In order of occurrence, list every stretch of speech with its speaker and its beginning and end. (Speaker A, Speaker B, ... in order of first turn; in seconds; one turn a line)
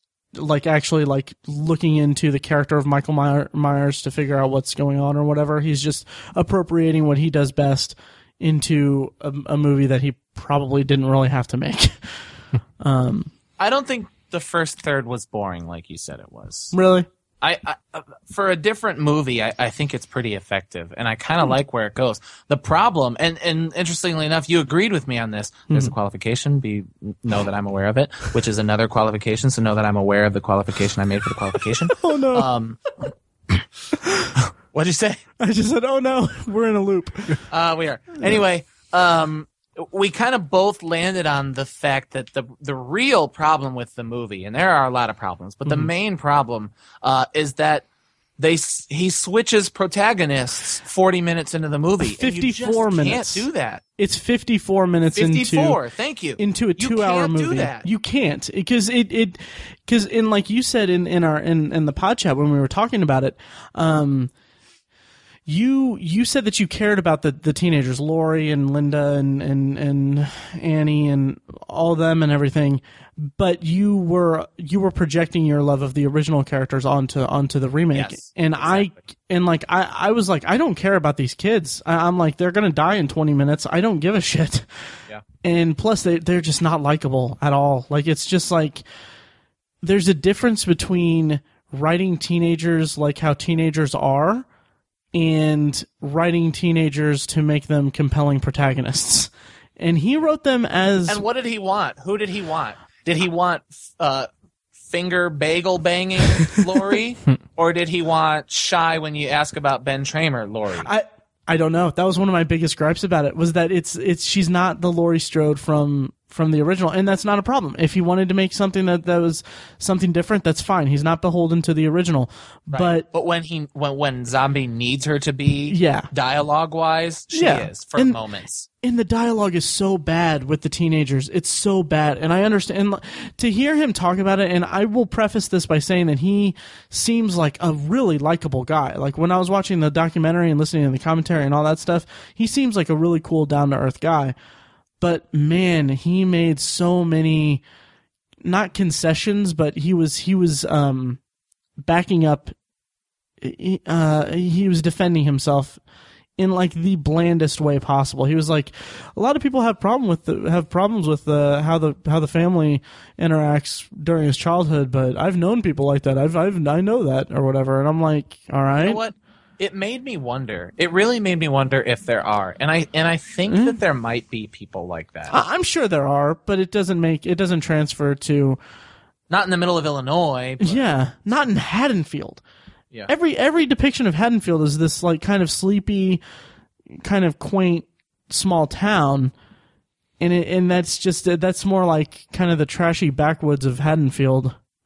Speaker A: 0.3-12.0
Speaker A: 12.8-13.3
Speaker B: 13.6-16.7
Speaker A: 16.7-17.1
Speaker B: 17.4-33.0
Speaker A: 31.9-32.5
Speaker A: 34.0-34.3
Speaker B: 34.7-35.2
Speaker A: 35.4-37.4
Speaker B: 37.5-47.9
Speaker B: 48.4-53.8
Speaker A: 52.0-53.5
Speaker A: 54.0-55.8
Speaker B: 55.2-57.9
Speaker A: 56.4-64.3
Speaker A: 65.5-84.7
Speaker B: 77.9-78.9
Speaker A: 85.4-88.8
Speaker A: 89.8-94.5
Speaker A: 95.1-101.2
Speaker B: 101.1-104.3
Speaker B: 104.8-110.9
Speaker A: 110.8-123.1
Speaker B: 122.7-128.7
Speaker A: 125.7-126.1
Speaker A: 127.3-128.2
Speaker A: 128.8-144.3
Speaker A: 145.0-147.6
Speaker A: 148.4-151.2
Speaker A: 151.8-152.5
Speaker A: 153.4-155.8
Speaker A: 156.4-169.0
Speaker B: 168.8-175.4
Speaker A: 173.5-173.8
Speaker A: 175.3-178.6
Speaker B: 179.3-180.8
Speaker A: 180.6-182.4
Speaker A: 183.1-186.2
Speaker A: 187.0-189.3
Speaker A: 190.2-194.6